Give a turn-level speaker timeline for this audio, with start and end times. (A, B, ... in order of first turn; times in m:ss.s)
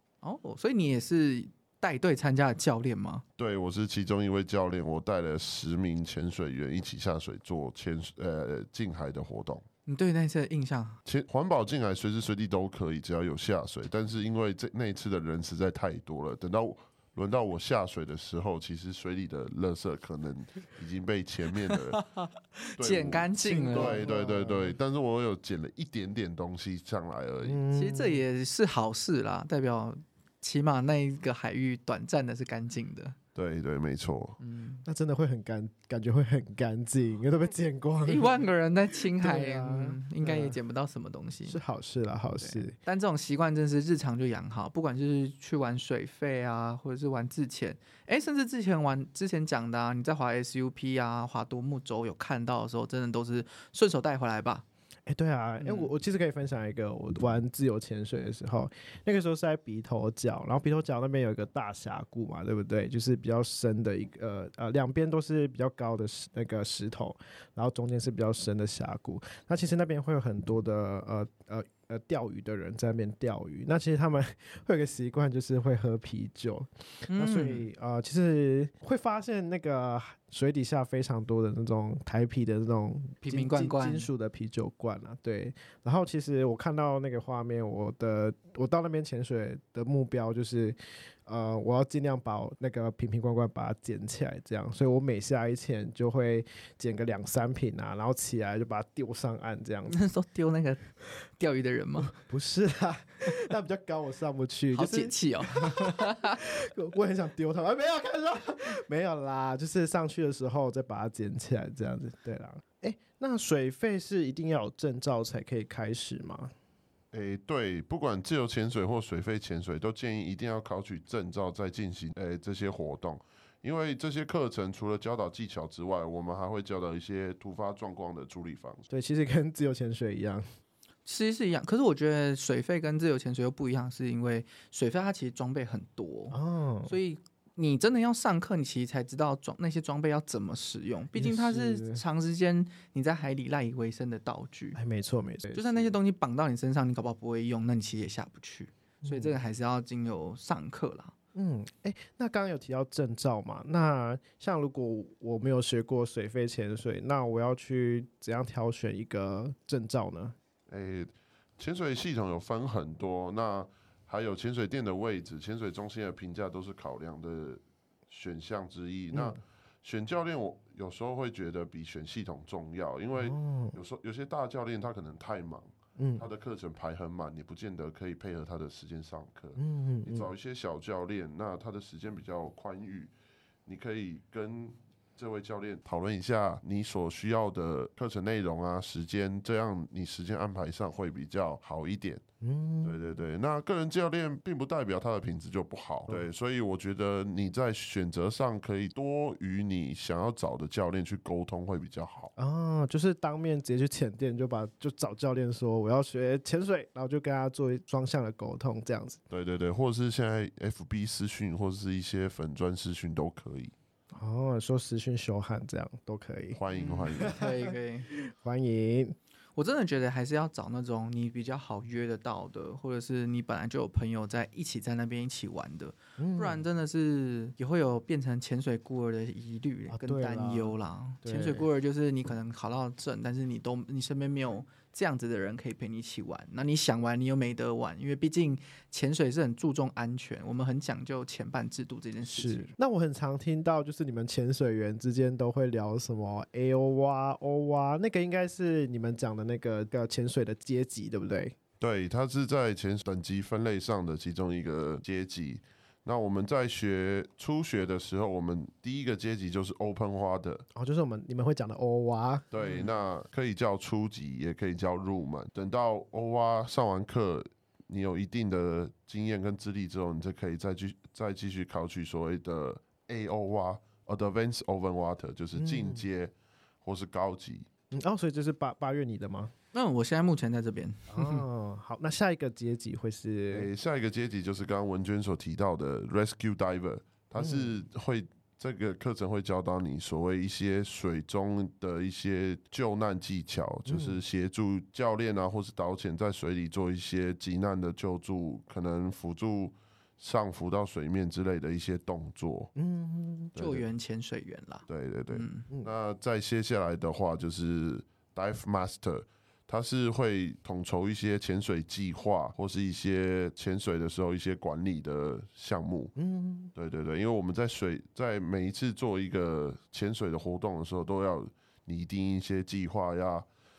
0:00.2-0:03.2 A
0:03.4-0:09.6 B
0:09.9-0:11.0 A
0:11.0-0:22.0 B
0:21.7-0:24.0 A
0:22.8-0:27.6 B
0:23.4-0:24.8 C
0:27.4-0:28.2 C
0:27.7-0:33.2 A
0:33.4-0:34.4 B
0:34.4-0:34.8 A
0:34.8-0:38.5 C
0:38.1-0:41.6 A
0:39.1-0:40.6 C
0:41.5-0:42.8 C
0:42.4-0:54.6 A
0:55.1-1:40.0 C
0:55.6-0:55.9 A
1:17.1-1:17.7 A
1:23.2-1:24.1 A
1:39.9-1:42.1 A
1:42.1-1:56.5 C
1:44.7-1:46.4 A
1:57.1-2:08.9 B
2:08.9-2:10.4 C
2:11.1-2:24.8 A
2:16.3-2:16.9 C
2:21.1-2:22.0 C
2:24.8-2:25.9 C
2:25.5-2:31.1 A
2:29.0-2:29.4 C
2:31.4-2:40.4 C
2:40.7-3:03.1 B
2:49.1-2:49.4 C
2:53.2-2:53.8 C
2:56.0-2:56.3 C
2:59.6-3:00.3 C
3:03.6-3:12.2 B
3:12.4-3:13.0 C
3:12.8-3:22.3 B
3:22.4-3:29.2 C
3:29.3-3:33.7 B
3:34.1-3:39.2 C
3:36.6-3:37.4 B
3:36.7-3:38.1 A
3:39.6-4:02.7 A
3:46.2-3:46.6 C
3:49.9-3:51.7 C
4:02.3-4:11.6 C
4:11.8-4:20.6 B
4:20.7-4:22.4 C
4:22.5-4:37.7 B
4:22.6-4:23.0 A
4:35.6-4:36.0 C
4:37.9-4:39.5 C
4:39.7-4:41.4 A
4:41.1-4:43.7 C
4:43.5-5:02.7 B
4:47.4-4:47.7 C
4:53.9-4:54.2 C
5:02.8-5:03.6 C
5:03.5-5:03.8 B
5:03.6-5:05.7 A
5:04.9-5:16.1 B
5:16.2-5:16.7 C
5:16.7-5:23.4 B